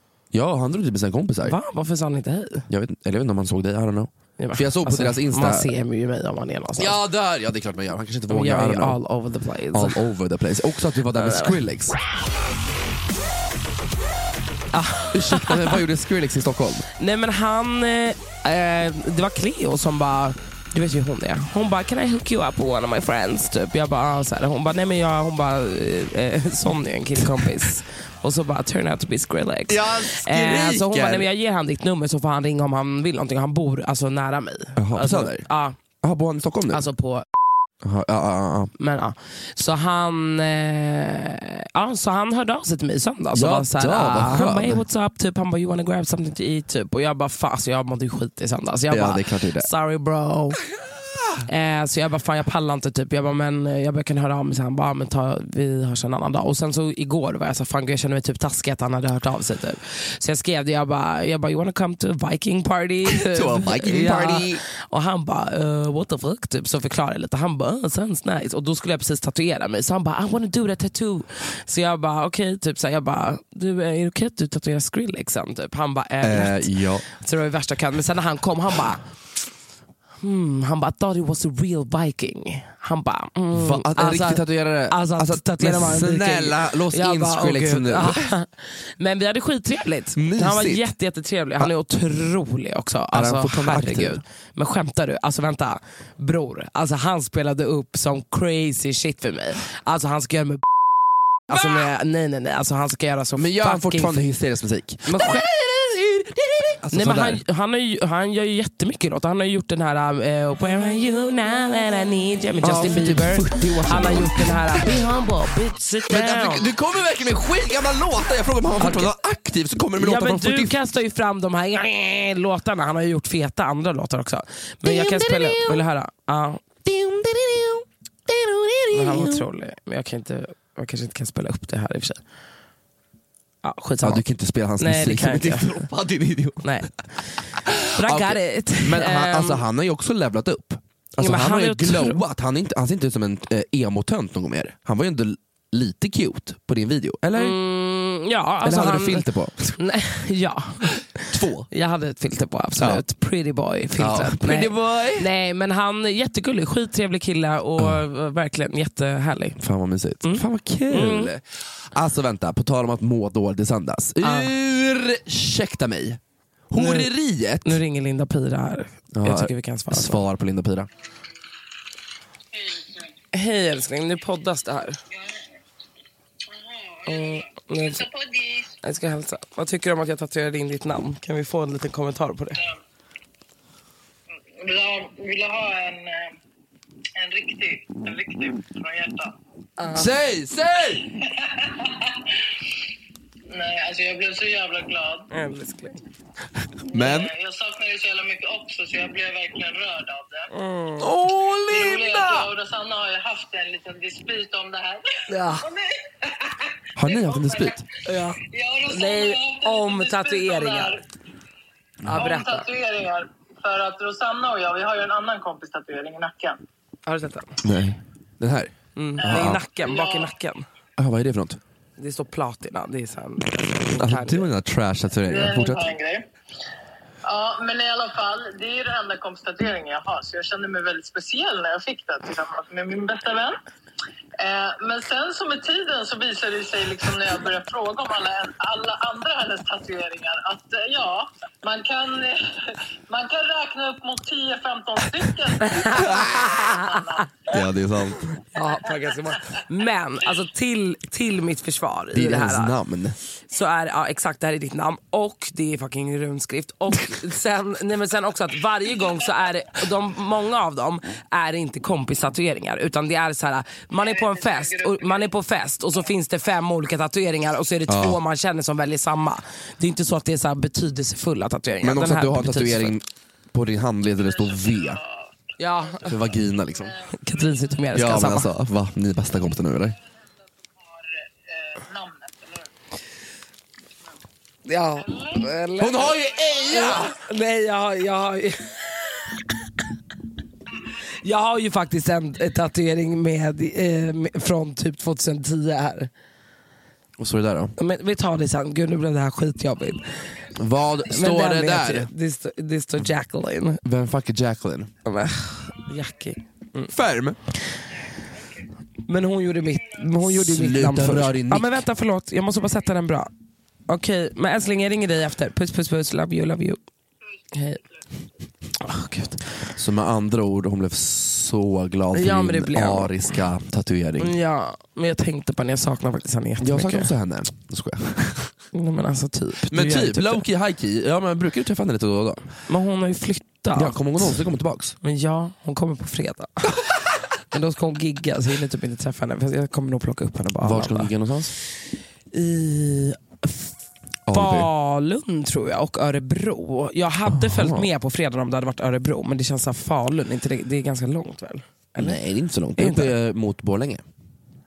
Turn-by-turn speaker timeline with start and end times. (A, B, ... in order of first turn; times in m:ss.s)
0:00.3-0:01.6 A
0:01.5-0:02.6 B
0:02.7-0:05.7 A
0:04.4-0:07.0 B
0:06.8-0:09.0 A
0:08.3-0:10.0 B
0:09.7-0:12.0 A
0:11.1-0:11.6 B
0:14.7-0:15.8 B
0:15.1-0:16.9 A
0:17.0-0:35.8 B
0:29.7-0:31.3 A
0:34.8-0:35.5 A
0:36.0-0:36.8 A
0:36.7-0:37.3 B
0:37.8-0:38.7 A
0:38.8-0:50.6 B
0:43.3-0:44.8 A
0:48.9-0:49.7 A
0:51.5-1:19.0 B
1:03.1-1:04.6 A
1:16.2-1:17.0 A
1:20.2-1:40.6 B
1:23.5-1:28.3 A
1:30.2-1:30.9 A
1:33.1-1:34.2 A
1:41.5-1:44.2 B
1:41.5-1:41.9 A
1:43.4-1:47.4 A
1:45.1-1:45.4 B
1:46.9-1:56.7 B
1:52.6-1:54.9 A
1:56.1-2:00.8 A
1:58.8-1:59.1 B
2:00.0-2:06.6 B
2:04.8-2:05.8 A
2:06.8-2:09.4 A
2:08.9-2:12.2 B
2:13.6-2:14.2 B
2:14.0-2:16.7 A
2:14.8-2:15.8 B
2:16.6-2:17.0 B
2:17.7-2:27.6 A
2:18.0-2:19.6 B
2:21.2-2:22.2 B
2:27.3-2:39.6 B
2:28.6-2:29.7 A
2:31.3-2:31.7 A
2:32.8-2:33.0 A
2:34.0-2:35.3 A
2:39.6-2:41.4 A
2:40.2-2:41.3 B
2:41.9-2:47.8 A
2:44.2-2:44.5 B
2:46.8-2:47.1 B
2:47.6-2:50.2 B
2:49.1-2:50.9 A
2:52.5-2:53.1 C
2:53.3-2:55.0 B
2:55.2-2:55.4 C
2:56.5-2:58.8 C
2:57.1-2:58.1 B
2:58.8-3:02.6 B
3:04.6-3:06.4 C
3:07.2-3:09.4 C
3:09.8-3:10.1 B
3:09.9-3:11.1 A
3:11.3-3:12.3 C
3:13.5-3:15.3 C
3:15.3-3:16.0 B
3:16.9-3:17.3 A
3:16.9-3:20.5 C
3:20.5-3:21.1 B
3:21.0-3:22.5 A
3:21.7-3:27.8 C
3:25.3-3:25.7 B
3:27.0-3:27.8 A
3:28.0-3:31.0 B
3:28.4-3:31.0 C
3:32.1-3:32.7 B
3:32.2-3:36.6 C
3:37.1-3:37.6 B
3:37.6-3:39.6 A
3:39.0-3:40.6 B
3:39.2-3:40.3 C
3:41.0-3:41.6 A
3:42.0-3:44.5 B
3:44.0-3:45.8 A
3:45.3-3:46.2 C
3:47.3-3:53.6 C
3:54.4-4:07.4 C
4:05.6-4:07.0 B
4:05.9-4:06.4 A
4:07.5-4:08.3 A
4:08.5-4:12.7 B
4:12.1-4:13.2 A
4:13.5-4:33.0 B
4:24.0-4:25.3 C
4:27.9-4:28.2 A
4:31.8-4:35.0 A
4:34.2-4:36.1 C
4:35.6-4:36.2 B
4:36.0-4:36.9 A
4:36.7-4:37.6 C
4:37.1-4:38.5 B
4:37.9-4:40.0 A
4:40.8-4:42.7 C
4:44.7-4:46.2 B
4:45.0-4:45.4 C
4:45.8-4:47.1 A
4:46.1-4:47.0 C
4:46.7-4:49.5 B
4:51.2-4:56.1 B
4:57.2-4:57.7 A
4:57.8-5:00.2 B
5:00.6-5:02.1 A
5:01.1-5:03.8 B
5:03.8-5:04.9 A
5:05.0-5:06.9 B
5:06.9-5:07.4 A
5:09.1-5:13.3 B
5:10.2-5:11.8 A
5:13.9-5:16.8 B
5:17.5-5:17.8 B
5:18.8-5:19.4 B
5:19.8-5:24.3 A
5:22.1-5:23.1 B
5:24.2-5:27.1 B
5:26.6-5:28.5 A
5:28.7-5:30.4 B
5:29.7-5:32.5 A
5:32.7-5:34.4 B
5:33.7-5:35.0 A
5:35.0-5:36.7 B
5:37.5-5:41.1 B
5:40.6-5:41.5 A
5:42.3-5:43.7 B
5:44.3-5:44.7 A
5:44.3-5:52.2 B
5:47.3-5:47.9 A
5:52.0-5:54.0 A
5:52.8-5:53.1 B